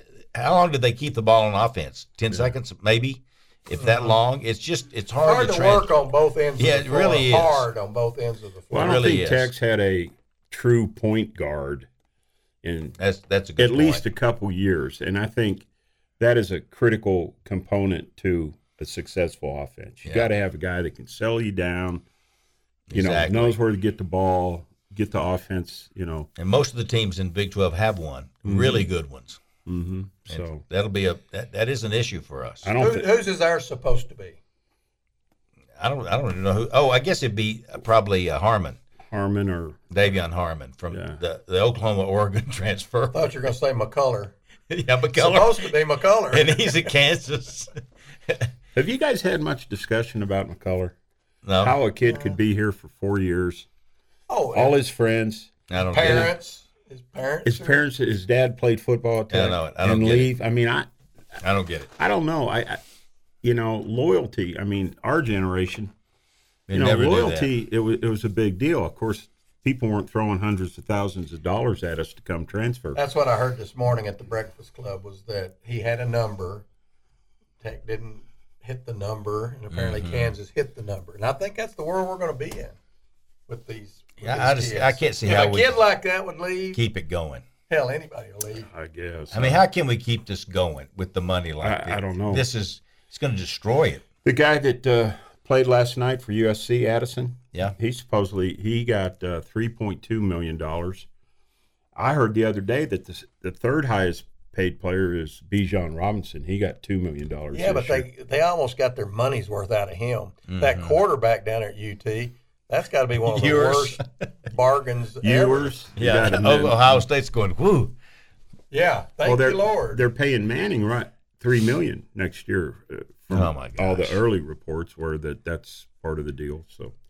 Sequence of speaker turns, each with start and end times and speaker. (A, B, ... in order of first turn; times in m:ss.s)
0:00.3-0:05.9 A
0:03.8-0:04.1 B
0:05.2-0:09.1 B
0:06.6-0:07.6 A
0:08.7-0:11.9 C
0:08.7-0:09.5 A
0:12.6-0:13.0 C
0:13.0-0:14.0 A
0:13.6-0:15.6 C
0:16.2-0:22.0 C
0:22.9-0:23.5 A
0:22.9-0:26.3 C
0:26.4-0:29.4 A
0:28.4-0:28.9 C
0:29.6-0:30.6 C
0:30.3-0:32.7 A
0:32.6-0:33.1 C
0:32.8-0:34.4 B
0:35.8-0:38.8 A
0:39.1-0:39.9 C
0:39.9-0:43.3 A
0:40.9-0:41.2 C
0:43.1-0:44.3 B
0:44.7-0:45.8 A
0:45.2-0:46.6 B
0:46.3-0:47.7 A
0:48.7-0:50.9 C
0:51.4-0:51.7 A
0:51.6-0:53.7 C
0:52.0-0:52.4 B
0:54.3-0:54.8 B
0:54.5-0:56.3 C
0:55.7-0:56.3 A
0:55.8-0:57.8 B
0:57.4-1:00.9 C
0:59.3-1:00.3 A
1:01.4-1:01.9 A
1:02.0-1:02.8 C
1:03.4-1:05.9 C
1:06.7-1:07.5 A
1:06.7-1:13.0 C
1:12.9-1:16.6 B
1:17.6-1:22.8 B
1:19.7-1:20.3 A
1:23.5-1:26.8 B
1:24.2-1:25.8 A
1:26.7-1:27.4 A
1:27.7-1:28.7 B
1:28.6-1:29.6 C
1:29.3-1:34.0 A
1:31.6-1:32.4 C
1:34.2-1:41.1 C
1:42.0-1:48.0 C
1:47.5-1:55.7 B
1:50.5-1:51.0 A
1:53.3-1:54.0 A
1:55.2-1:57.0 C
1:56.0-1:57.9 A
1:58.7-2:00.0 B
1:59.2-2:06.9 C
2:03.3-2:04.2 A